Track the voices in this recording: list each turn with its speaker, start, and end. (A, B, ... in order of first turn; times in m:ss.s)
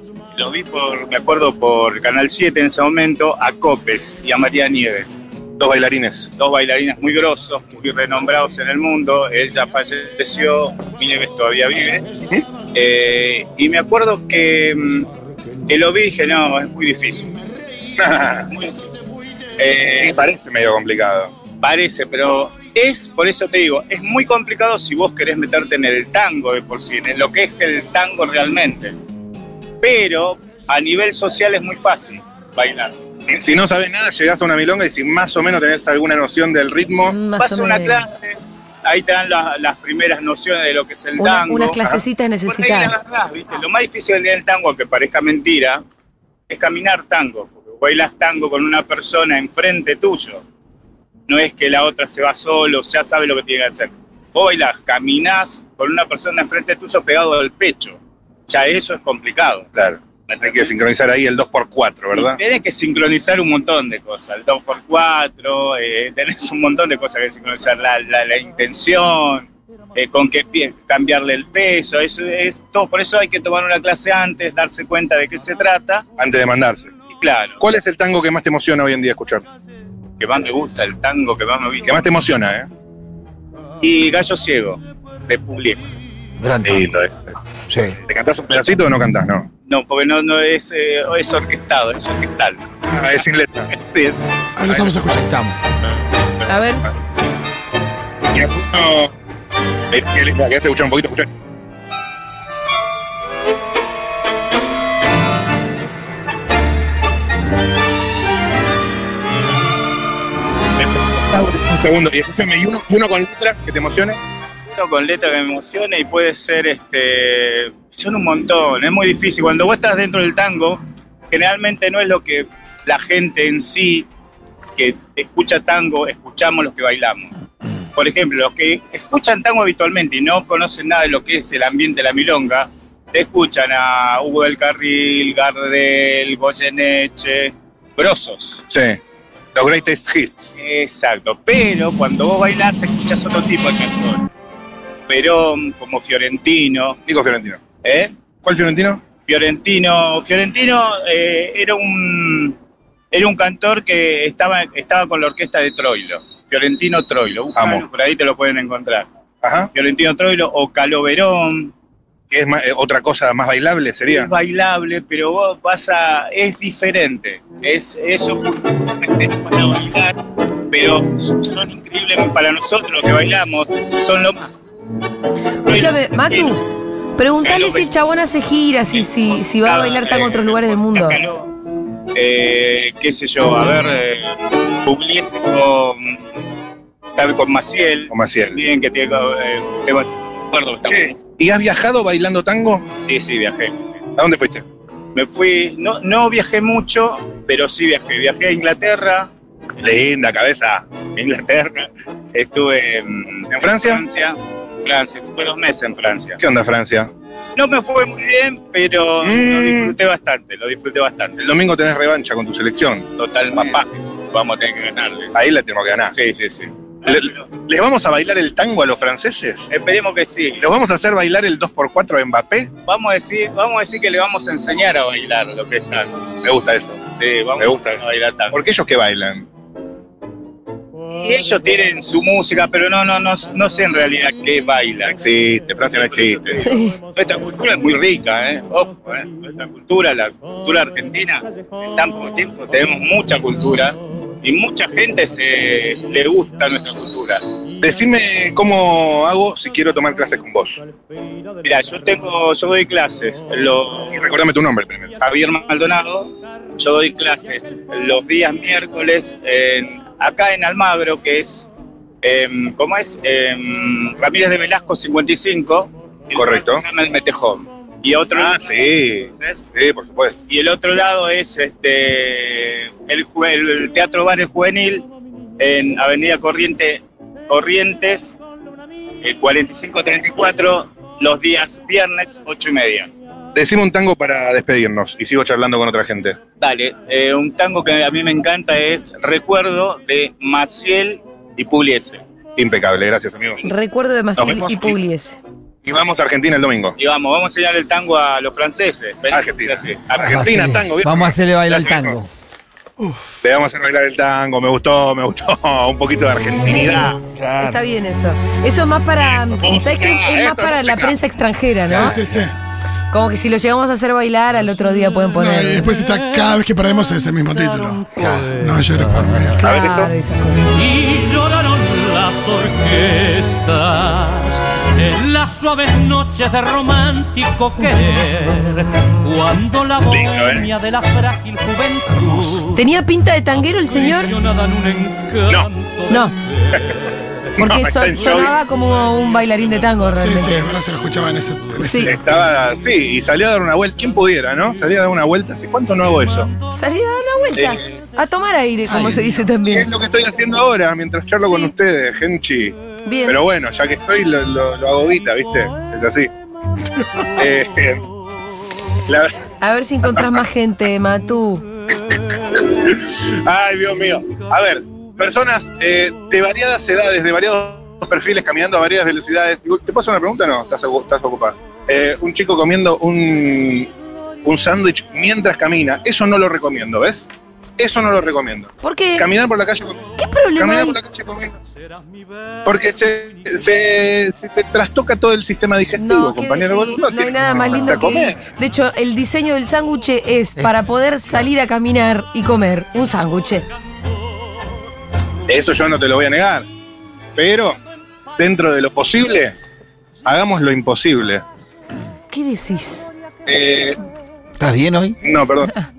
0:00.3-0:05.2 A
0:05.6-0:06.3 B
0:06.4-0:12.0 A
0:12.7-0:15.1 A
0:15.7-0:17.3 A
0:18.0-0:18.5 B
0:18.5-0:18.8 A
0:19.6-0:20.1 A
0:20.0-0:21.3 B
0:21.6-0:28.9 A
0:29.8-0:33.0 A
0:33.3-0:37.2 B
0:37.1-0:38.0 C
0:37.4-0:41.8 A
0:41.2-0:42.9 C
0:42.5-0:45.8 A
0:46.5-0:50.4 A
0:51.3-0:59.7 A
0:59.7-1:02.4 B
1:00.3-1:00.6 A
1:02.1-1:16.0 A
1:16.2-1:16.9 B
1:17.1-1:17.6 A
1:17.6-1:19.4 B
1:20.2-1:21.9 A
1:21.8-1:22.7 B
1:23.8-1:25.9 A
1:26.4-1:26.8 D
1:26.6-1:27.4 B
1:27.7-1:28.0 D
1:28.1-1:29.5 B
1:29.7-1:32.6 A
1:32.9-1:33.7 B
1:33.7-1:34.2 A
1:34.6-1:35.3 E
1:34.7-1:35.0 B
1:35.2-1:35.5 D
1:36.5-1:36.8 C
1:38.3-1:39.1 B
1:39.9-1:41.3 B
1:50.8-1:54.2 B
1:54.7-2:04.1 A
2:04.8-2:07.3 A
2:08.0-2:18.6 A
2:18.7-2:19.0 B
2:19.5-2:20.6 B
2:20.6-2:24.3 A
2:25.1-2:27.0 A
2:27.1-2:27.6 B
2:27.8-2:28.1 A
2:28.4-2:29.1 B
2:29.2-2:32.6 A
2:33.1-2:39.1 A
2:37.5-2:37.8 B
2:39.4-2:39.7 B
2:39.7-2:41.7 A
2:42.3-2:44.3 B
2:44.1-2:50.2 A
2:50.7-2:54.5 A
2:55.6-2:56.6 A
2:55.6-2:56.6 C
2:57.2-3:01.2 C
2:57.4-2:57.9 A
2:58.9-3:01.5 A
3:02.1-3:06.2 A
3:07.2-3:11.1 A
3:08.1-3:08.6 B
3:10.9-3:12.9 B
3:13.0-3:13.9 A
3:14.2-3:14.6 B
3:15.1-3:19.3 A
3:19.8-3:21.1 B
3:21.2-3:26.4 A
3:23.5-3:24.0 B
3:26.4-3:27.1 B
3:27.6-3:31.4 A
3:29.2-3:29.9 B
3:31.4-3:33.1 B
3:33.2-3:35.3 A
3:35.3-3:36.1 B
3:36.1-3:37.4 A
3:37.0-3:39.7 B
3:39.7-3:40.6 A
3:40.6-3:42.7 B
3:42.8-3:46.1 A
3:46.4-3:48.0 B
3:47.2-3:48.6 A
3:48.5-3:49.4 B
3:51.1-3:55.1 A
3:55.1-3:56.6 B
3:55.9-4:07.4 A
3:56.6-3:57.0 C
4:07.8-4:10.8 B
4:11.6-4:14.2 A
4:14.1-4:15.1 B
4:15.2-4:21.7 A
4:22.2-4:29.6 A
4:26.3-4:26.8 B
4:28.3-4:30.4 B
4:30.5-4:35.1 A
4:35.6-4:38.3 A
4:39.2-4:43.1 A
4:43.5-4:46.4 B
4:46.6-4:52.2 A
4:52.6-4:53.6 B
4:53.6-4:55.4 C
4:54.4-4:54.9 B
4:55.8-4:57.0 B
4:57.0-5:00.4 A
4:59.3-5:02.2 B
5:00.2-5:02.3 D
5:03.4-5:07.2 B
5:07.3-5:07.8 D
5:07.6-5:12.2 C
5:09.2-5:11.2 B
5:11.9-5:12.3 D
5:11.9-5:12.5 E
5:13.1-5:15.9 C
5:15.0-5:19.4 F
5:15.4-5:19.7 E
5:18.2-5:18.4 D
5:19.6-5:20.1 B
5:19.6-5:20.8 C
5:20.7-5:32.8 F
5:30.1-5:30.7 B
5:32.1-5:32.6 E
5:32.7-5:34.3 C
5:33.5-5:37.0 F
5:36.1-5:36.3 C
5:37.6-5:38.6 B
5:37.6-5:40.6 C
5:39.0-5:41.1 F
5:40.2-5:42.4 E
5:41.8-5:42.2 C
5:42.0-5:46.5 B
5:46.3-5:47.3 F
5:46.7-5:49.9 C
5:47.5-5:47.8 B
5:48.9-5:49.2 E
5:49.6-5:56.3 B
5:51.4-5:51.7 C
5:53.0-5:53.4 C
5:57.4-5:58.0 B
5:59.0-5:59.4 B
5:59.6-6:01.6 C
6:00.0-6:00.4 B
6:02.5-6:13.9 B
6:14.4-6:17.3 B
6:17.8-6:20.0 B
6:18.8-6:19.3 C
6:20.2-6:21.0 C
6:20.6-6:21.5 B
6:22.6-6:28.4 B
6:26.0-6:33.6 C
6:35.5-6:36.6 B
6:37.4-6:37.8 B
6:38.4-6:39.5 B
6:40.2-6:41.4 B
6:42.3-6:43.1 C
6:43.5-6:44.0 B
6:44.6-6:45.2 D
6:45.2-6:45.8 B